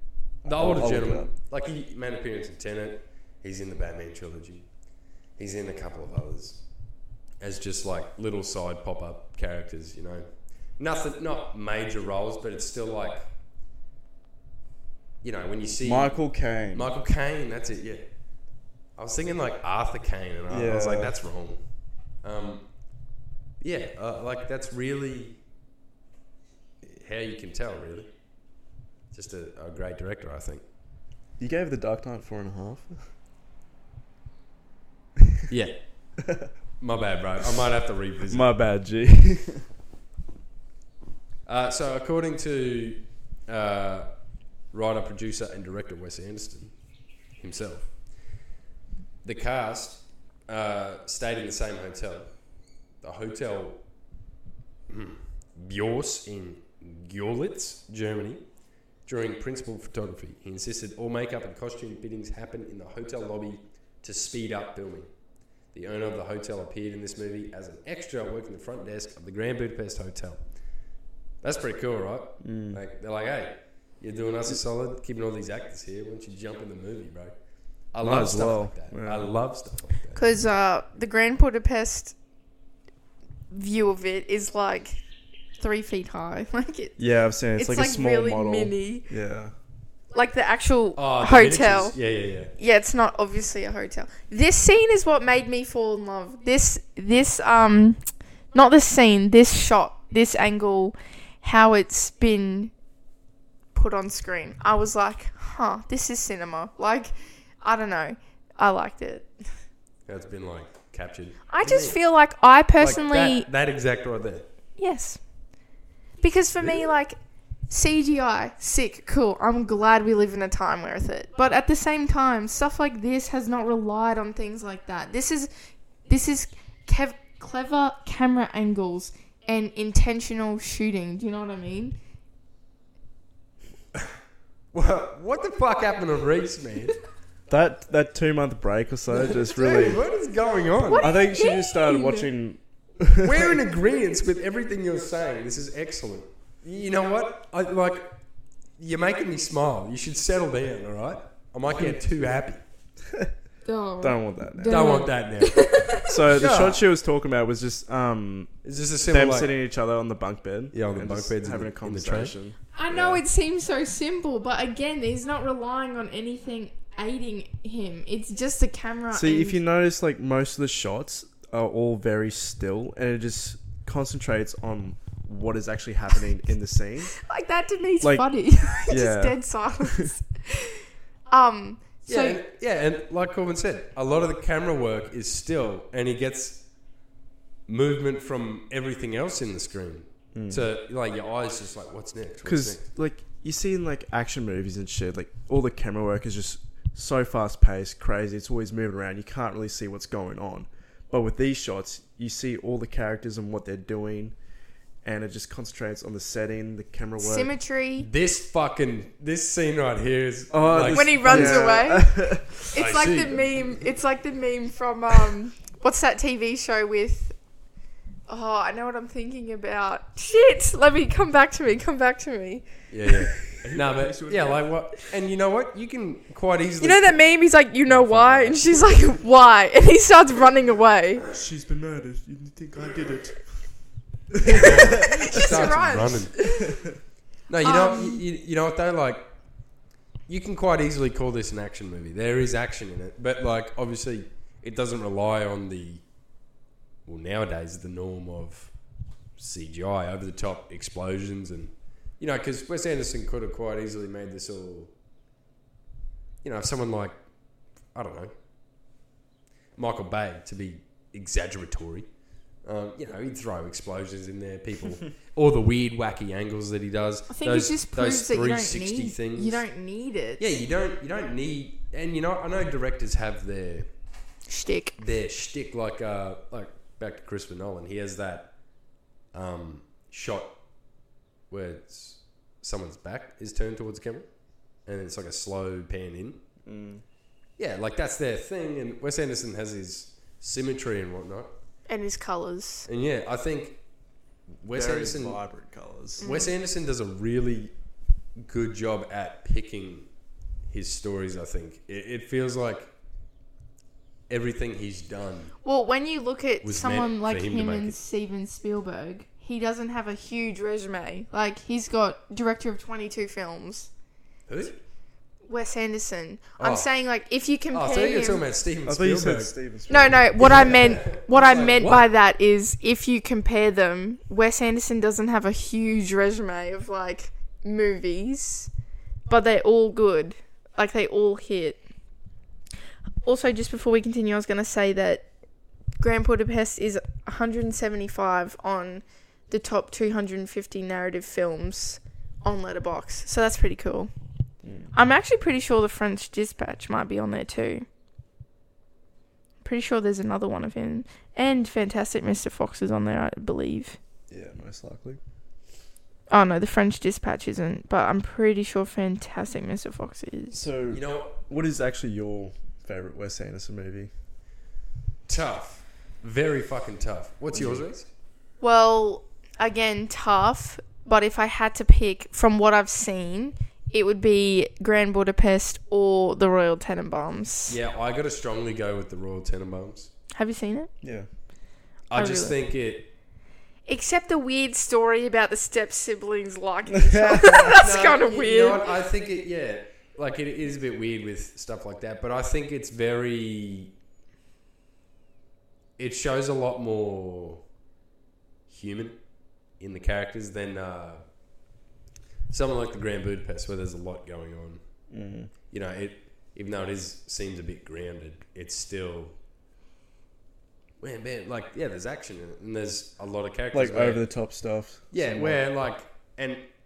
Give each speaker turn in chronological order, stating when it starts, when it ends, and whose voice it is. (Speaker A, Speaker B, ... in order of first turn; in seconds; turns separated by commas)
Speaker A: 0.4-4.7, Speaker B: 0.4-1.3, Speaker A: 5.4-6.7, Speaker A: 7.4-13.3, Speaker A: 15.2-16.2, Speaker B: 15.8-16.9, Speaker A: 16.7-18.0, Speaker A: 19.0-21.6, Speaker B: 20.5-21.2, Speaker A: 22.2-22.7, Speaker A: 23.6-25.4, Speaker A: 26.8-28.1, Speaker A: 29.1-30.6, Speaker B: 31.4-33.1, Speaker A: 35.5-36.1, Speaker A: 36.8-38.5, Speaker B: 38.3-39.6, Speaker A: 41.5-44.1, Speaker A: 44.7-46.8, Speaker A: 47.4-48.0, Speaker A: 49.2-52.3, Speaker A: 53.0-53.8, Speaker A: 54.9-58.5, Speaker A: 59.0-65.1, Speaker A: 65.7-70.4, Speaker A: 71.4-77.3, Speaker B: 72.4-72.8, Speaker A: 77.9-80.2, Speaker B: 78.0-79.3, Speaker C: 80.2-82.2, Speaker C: 83.5-85.0, Speaker C: 85.6-87.0, Speaker B: 87.0-89.5, Speaker C: 87.5-89.1, Speaker C: 90.1-92.0, Speaker A: 91.0-92.5, Speaker C: 92.5-102.7, Speaker C: 103.8-109.3, Speaker A: 110.1-112.0, Speaker C: 111.5-113.5, Speaker A: 112.8-114.5, Speaker C: 114.8-115.2, Speaker C: 116.2-117.2, Speaker C: 117.7-125.5, Speaker C: 126.1-132.0, Speaker A: 134.7-137.0, Speaker B: 137.5-140.0, Speaker A: 139.1-141.1, Speaker C: 140.8-142.3, Speaker B: 141.0-143.6, Speaker A: 143.2-148.2, Speaker A: 148.8-152.6, Speaker C: 153.7-156.2, Speaker B: 154.0-155.0, Speaker A: 154.7-156.8, Speaker B: 156.1-163.2, Speaker A: 158.6-159.5, Speaker A: 160.7-162.3, Speaker C: 162.7-169.6, Speaker A: 162.9-163.2, Speaker B: 169.1-177.2, Speaker C: 177.2-182.4, Speaker B: 178.0-178.3, Speaker B: 178.8-180.1, Speaker A: 182.1-186.7, Speaker A: 187.7-192.8, Speaker B: 190.3-190.7, Speaker B: 192.4-204.4, Speaker B: 205.0-207.5, Speaker C: 207.2-208.1, Speaker A: 208.0-211.7, Speaker B: 210.5-212.7, Speaker C: 210.9-217.3, Speaker A: 212.8-213.7, Speaker C: 218.3-222.7, Speaker A: 222.9-227.1, Speaker B: 223.6-224.7, Speaker C: 226.8-231.3, Speaker A: 227.9-228.6, Speaker B: 231.3-233.7, Speaker B: 234.3-235.5, Speaker A: 234.4-236.7, Speaker C: 234.5-236.9, Speaker A: 237.5-239.3, Speaker C: 237.6-238.2, Speaker A: 240.3-246.1, Speaker A: 247.1-248.7, Speaker A: 249.4-254.9, Speaker A: 256.4-257.2, Speaker A: 257.9-258.3, Speaker A: 259.8-262.1, Speaker A: 262.6-269.6, Speaker C: 267.3-270.4, Speaker A: 270.4-273.9, Speaker C: 274.5-275.0, Speaker A: 275.0-278.5, Speaker A: 279.3-280.6, Speaker A: 281.5-284.3, Speaker A: 284.9-286.4, Speaker B: 286.6-287.0, Speaker A: 287.6-291.5, Speaker C: 291.9-292.9, Speaker A: 292.9-293.8, Speaker A: 294.6-295.4, Speaker B: 294.7-296.2, Speaker C: 296.2-296.6, Speaker A: 296.2-297.7, Speaker A: 298.4-300.1, Speaker A: 300.7-302.9, Speaker A: 304.3-305.5, Speaker C: 305.6-313.9, Speaker A: 306.6-308.0, Speaker A: 314.5-314.8, Speaker C: 315.5-318.5, Speaker A: 316.6-316.9, Speaker A: 317.7-319.5, Speaker B: 318.9-320.9, Speaker C: 319.9-328.7, Speaker A: 320.4-322.1, Speaker C: 329.3-331.8, Speaker C: 333.2-335.3, Speaker C: 336.0-344.1, Speaker B: 344.6-344.9, Speaker C: 344.9-347.9, Speaker C: 349.6-354.0, Speaker B: 354.3-355.2, Speaker C: 356.3-360.6, Speaker B: 360.5-364.1, Speaker A: 360.9-361.4, Speaker A: 365.3-368.1, Speaker B: 367.5-367.9, Speaker C: 368.6-377.8, Speaker A: 377.7-380.1, Speaker C: 380.4-380.9, Speaker B: 381.0-381.3, Speaker A: 382.1-383.1, Speaker C: 382.1-382.6, Speaker C: 383.9-389.0, Speaker B: 386.9-387.8, Speaker A: 387.8-393.9, Speaker A: 396.0-397.6, Speaker A: 398.7-399.2, Speaker A: 399.8-401.2, Speaker A: 402.5-404.8, Speaker B: 405.1-405.5, Speaker A: 405.7-409.4, Speaker A: 411.0-414.2, Speaker B: 413.7-415.6, Speaker A: 415.1-416.7